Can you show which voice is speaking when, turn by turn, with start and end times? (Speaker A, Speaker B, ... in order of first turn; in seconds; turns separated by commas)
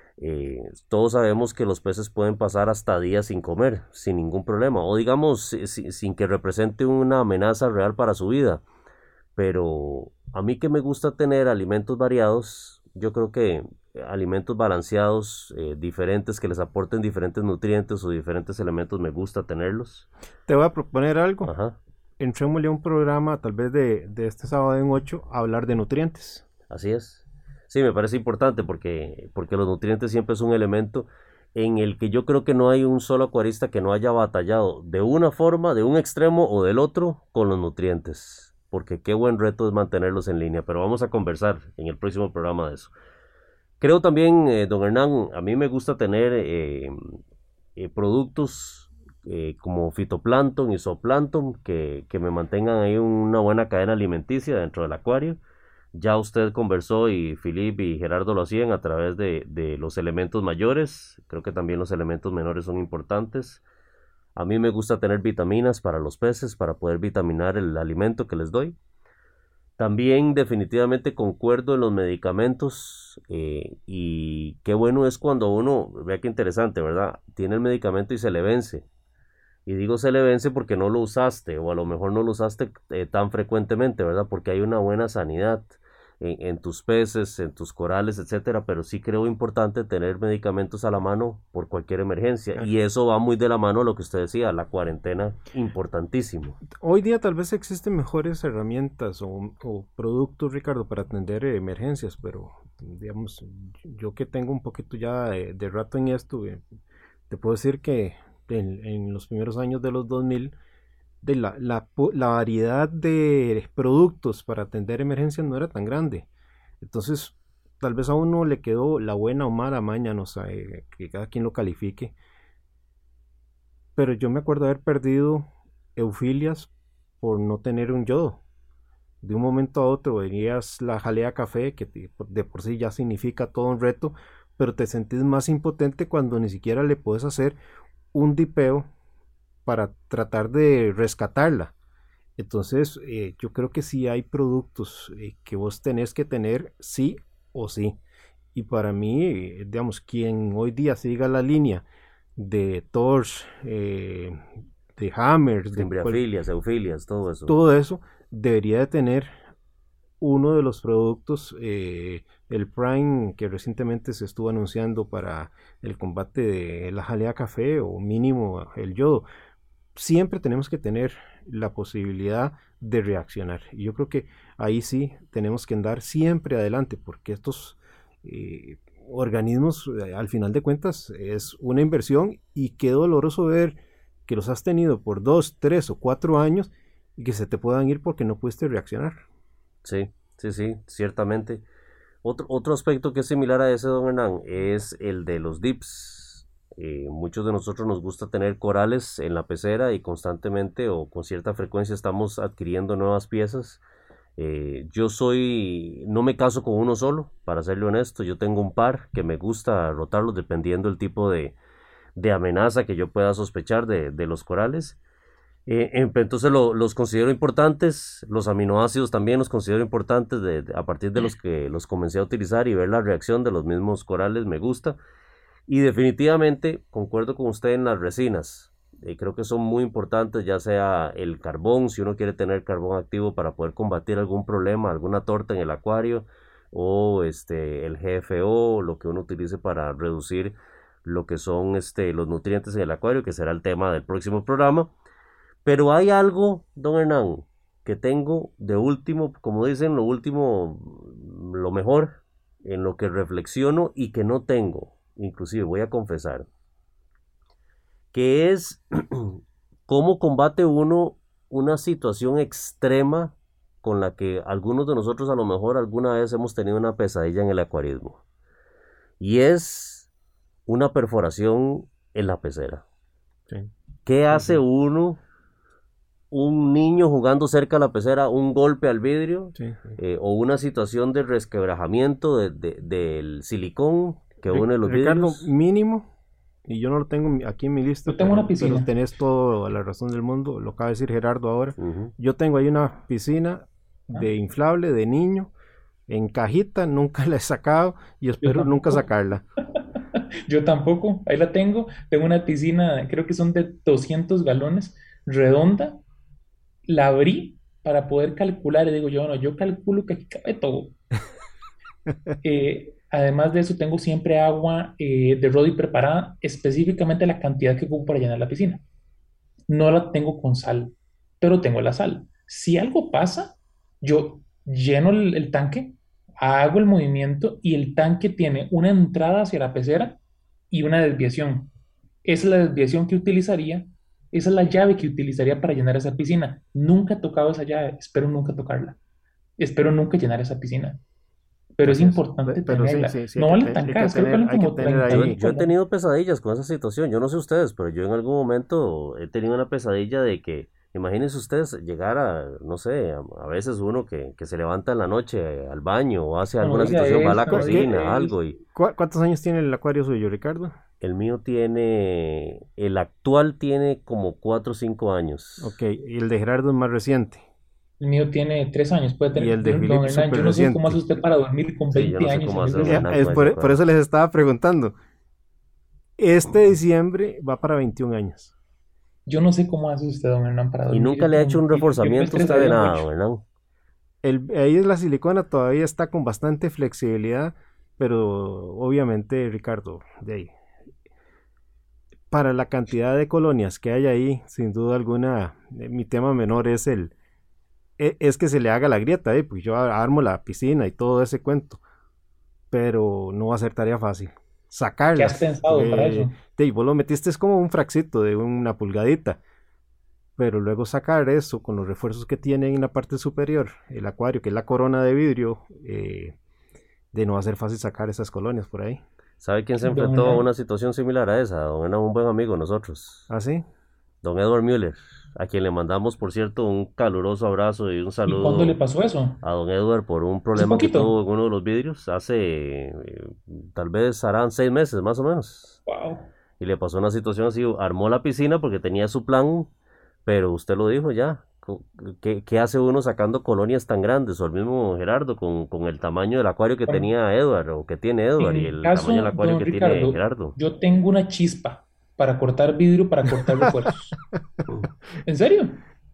Speaker A: 0.2-8.6, Speaker A: 9.4-20.1, Speaker B: 20.5-21.5, Speaker A: 21.4-21.8, Speaker B: 22.2-26.4, Speaker A: 26.7-42.9, Speaker A: 43.8-47.2, Speaker A: 47.8-55.4, Speaker A: 55.9-63.6, Speaker A: 64.4-68.8, Speaker A: 69.8-78.8, Speaker A: 79.7-96.6, Speaker B: 96.7-106.6, Speaker B: 107.3-110.5, Speaker B: 111.2-116.3, Speaker B: 116.8-122.2, Speaker B: 124.0-128.4, Speaker B: 129.2-137.6, Speaker B: 138.1-138.9, Speaker B: 139.7-141.7, Speaker B: 142.4-148.0, Speaker B: 148.6-151.8, Speaker B: 152.4-154.4, Speaker B: 155.0-156.2, Speaker A: 155.8-157.6, Speaker B: 157.5-159.3, Speaker B: 160.2-169.3, Speaker B: 170.0-189.2, Speaker A: 189.8-191.6, Speaker A: 192.2-203.8, Speaker A: 204.4-211.6, Speaker A: 212.2-215.0, Speaker A: 215.7-225.0, Speaker A: 225.7-244.9, Speaker A: 245.7-256.5, Speaker A: 258.1-268.2, Speaker A: 269.2-270.1, Speaker A: 270.7-272.8, Speaker A: 274.1-275.2, Speaker B: 274.3-274.6, Speaker A: 276.3-285.5, Speaker B: 279.6-279.9, Speaker B: 284.5-286.1, Speaker B: 286.7-295.5, Speaker C: 288.1-288.9, Speaker A: 291.8-292.1, Speaker B: 296.1-299.4, Speaker C: 298.4-299.1, Speaker C: 300.5-306.0, Speaker C: 306.9-311.0, Speaker C: 312.4-318.8, Speaker C: 319.7-330.2, Speaker C: 330.7-331.7, Speaker C: 332.2-339.0, Speaker C: 339.6-341.0, Speaker C: 341.8-345.7, Speaker B: 341.8-345.4, Speaker A: 345.1-358.6, Speaker C: 356.6-358.3, Speaker B: 357.3-358.0, Speaker B: 358.7-360.8, Speaker A: 361.0-365.7, Speaker B: 365.6-367.4, Speaker C: 368.0-373.5, Speaker B: 369.4-371.0, Speaker A: 371.9-373.8, Speaker B: 372.8-375.0, Speaker B: 376.2-378.5, Speaker C: 379.3-383.1, Speaker A: 380.9-383.4, Speaker B: 384.2-390.5, Speaker B: 392.3-397.1, Speaker B: 398.0-401.8, Speaker B: 402.7-409.4, Speaker C: 405.1-406.3, Speaker B: 410.4-416.4, Speaker B: 417.1-419.0, Speaker A: 419.4-423.3, Speaker C: 419.8-420.5, Speaker B: 423.3-423.6, Speaker A: 424.2-428.8, Speaker C: 428.3-429.4, Speaker A: 429.4-435.8, Speaker C: 430.6-431.1, Speaker C: 435.9-436.3, Speaker A: 436.6-439.7, Speaker A: 440.3-450.6, Speaker C: 448.4-454.2, Speaker C: 455.2-455.8